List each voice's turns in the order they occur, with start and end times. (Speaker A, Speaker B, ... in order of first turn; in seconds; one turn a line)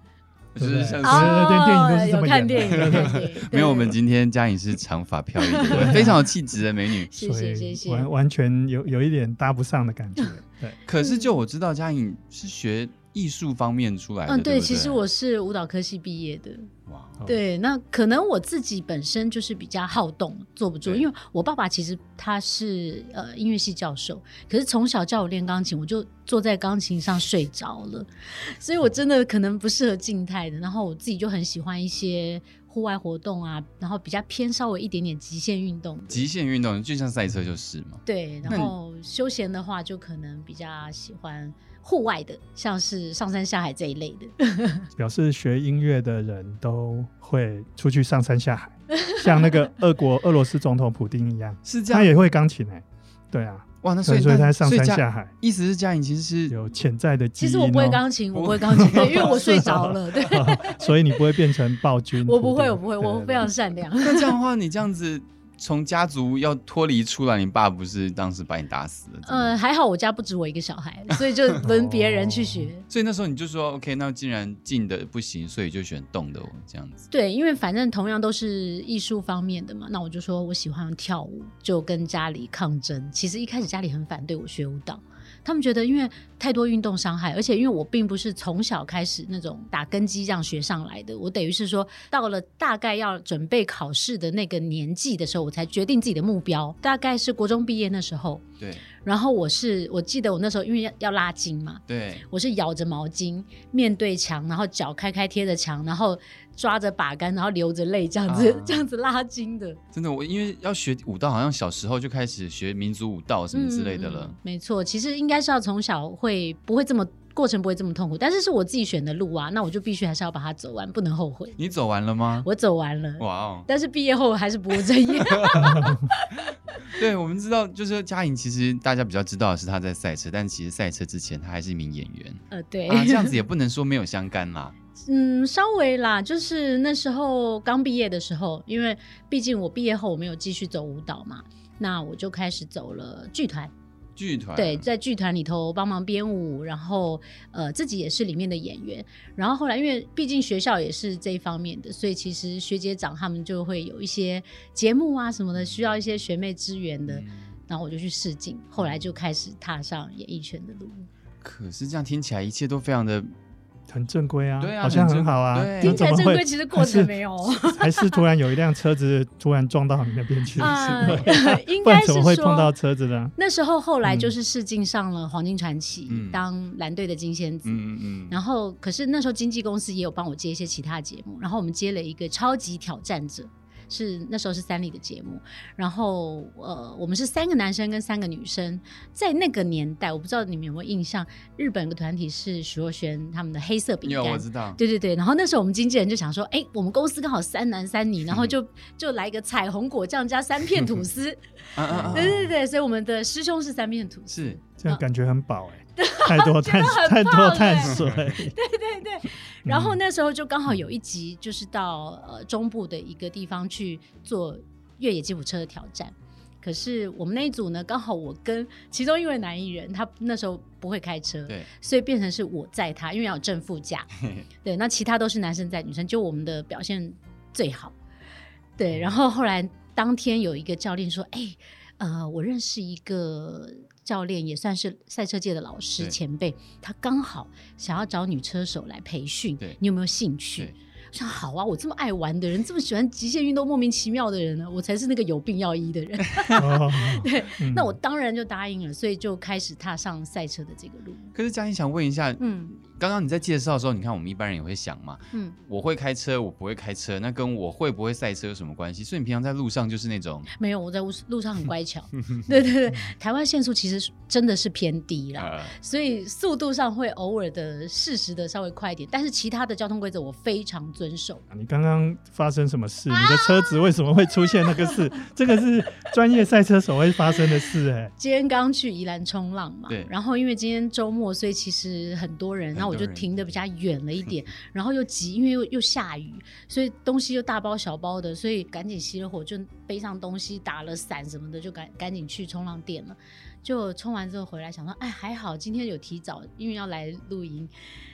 Speaker A: 0.5-1.6
Speaker B: 0.6-3.3
Speaker C: 1.0-4.0
Speaker A: 2.6-7.1
Speaker C: 5.4-6.2
Speaker B: 5.7-6.2
Speaker C: 7.0-8.1
Speaker B: 7.2-10.8
Speaker A: 10.8-15.0
Speaker C: 11.0-11.3
Speaker C: 14.3-16.7
Speaker A: 16.9-17.3
Speaker C: 17.2-36.3
Speaker A: 36.1-38.7
Speaker C: 38.0-44.9
Speaker B: 45.0-55.3
Speaker A: 51.6-52.1
Speaker A: 53.8-56.5
Speaker B: 56.5-58.0
Speaker C: 57.4-60.8
Speaker A: 58.3-59.6
Speaker B: 58.8-63.5
Speaker C: 62.2-64.3
Speaker A: 64.0-69.5
Speaker C: 69.2-72.8
Speaker B: 71.6-72.7
Speaker A: 72.9-77.1
Speaker C: 77.1-98.4
Speaker A: 98.6-98.9
Speaker C: 99.0-109.8
Speaker A: 101.9-102.2
Speaker A: 108.3-108.8
Speaker A: 109.9-114.3
Speaker C: 113.5-121.6
Speaker A: 121.6-122.5
Speaker C: 122.4-126.4
Speaker A: 123.2-123.7
Speaker A: 125.1-125.9
Speaker B: 125.7-126.0
Speaker A: 126.8-134.7
Speaker C: 132.5-133.4
Speaker C: 135.1-143.7
Speaker A: 144.2-144.8
Speaker C: 144.6-161.1
Speaker A: 157.1-157.5
Speaker A: 161.4-163.3
Speaker B: 163.9-173.3
Speaker A: 164.6-166.1
Speaker C: 165.8-168.2
Speaker A: 170.6-171.3
Speaker C: 170.6-172.7
Speaker C: 173.3-205.0
Speaker B: 174.0-174.3
Speaker A: 176.1-176.4
Speaker A: 177.6-178.4
Speaker A: 194.0-194.8
Speaker A: 201.8-202.5
Speaker B: 201.9-202.4
Speaker A: 204.3-204.6
Speaker B: 204.8-208.6
Speaker C: 206.0-208.0
Speaker C: 208.5-224.1
Speaker B: 209.7-210.0
Speaker A: 224.2-224.4
Speaker C: 224.6-227.9
Speaker C: 228.8-251.3
Speaker B: 246.6-248.0
Speaker A: 251.3-260.5
Speaker C: 252.4-252.7
Speaker C: 260.5-271.4
Speaker A: 265.4-265.7
Speaker B: 271.5-278.1
Speaker C: 273.1-273.9
Speaker C: 274.5-274.9
Speaker C: 278.2-297.7
Speaker A: 282.7-283.5